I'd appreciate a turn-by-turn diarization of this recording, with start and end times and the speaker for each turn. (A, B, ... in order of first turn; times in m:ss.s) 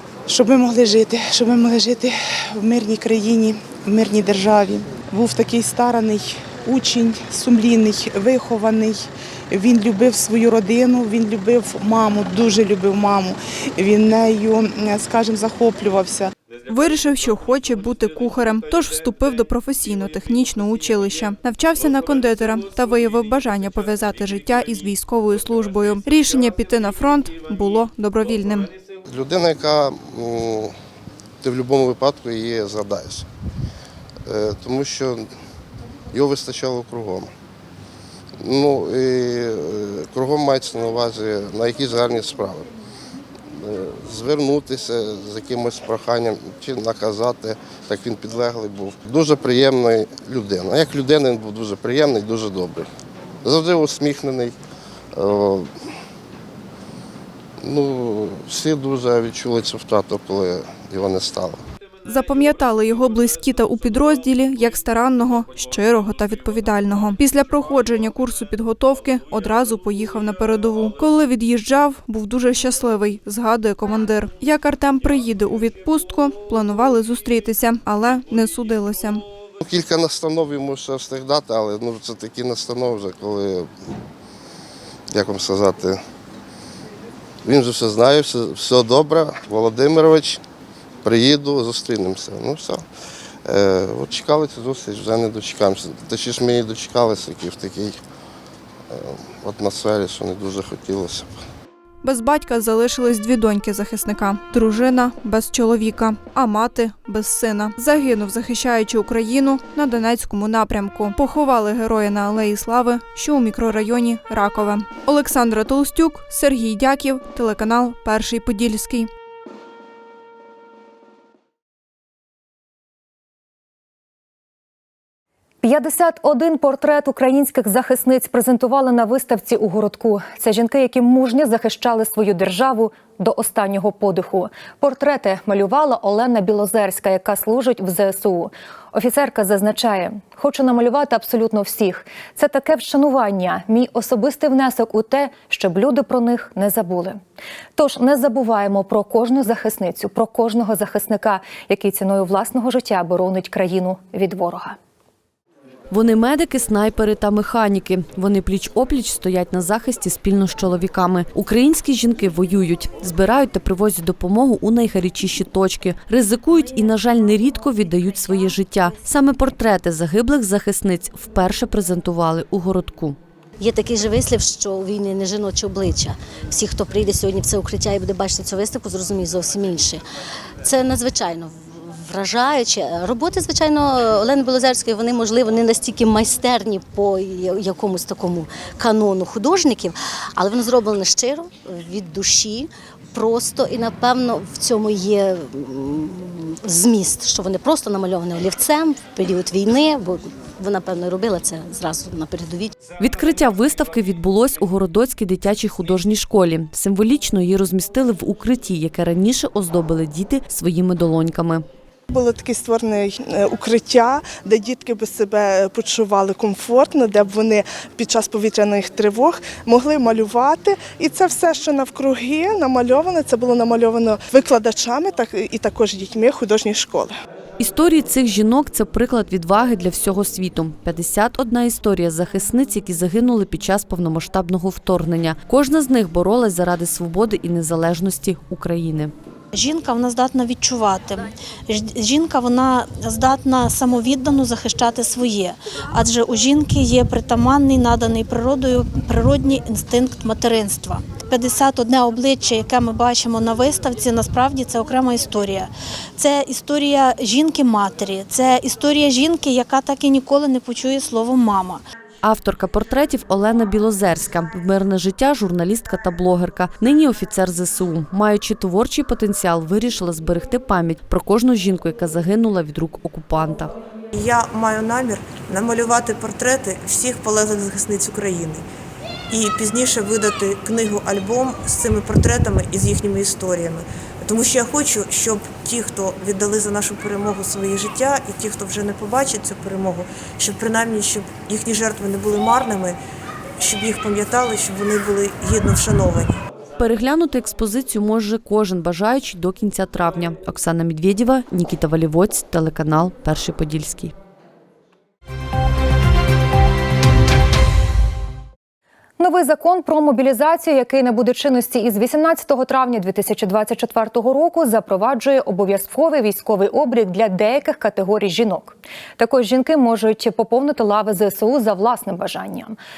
0:00.3-0:16.3 A
0:16.7-0:28.7 B
0:29.1-0:30.8 C
0:31.4-0:33.3 C
0:34.3-0:35.3 C
0:36.1-0:37.3 C
0:38.4-0:42.7 C
0:43.6-0:52.9 C
0:53.4-0:54.6 C
0:55.2-0:55.7 C
0:57.6-1:01.6 C
1:02.0-1:19.2 B
1:19.6-1:23.7 C
1:25.1-1:26.0 C
1:27.4-1:30.4 C
1:31.0-1:32.8 C
1:33.5-1:38.0 C
1:38.9-1:41.4 C
1:42.0-1:59.1 B
2:05.6-2:27.2 D
2:27.8-2:34.8 D
2:35.9-2:53.2 E
2:53.6-3:00.0 F
3:00.6-3:22.7 F
3:23.0-3:31.6 E
3:32.1-3:47.1 A
3:47.6-3:59.1 E
3:59.5-4:21.8 G
4:22.2-4:33.8 E
4:34.1-4:38.6 H
4:39.3-4:53.0 H
4:53.6-4:56.4 H
4:56.8-5:04.1 E
5:09.2-5:22.8 D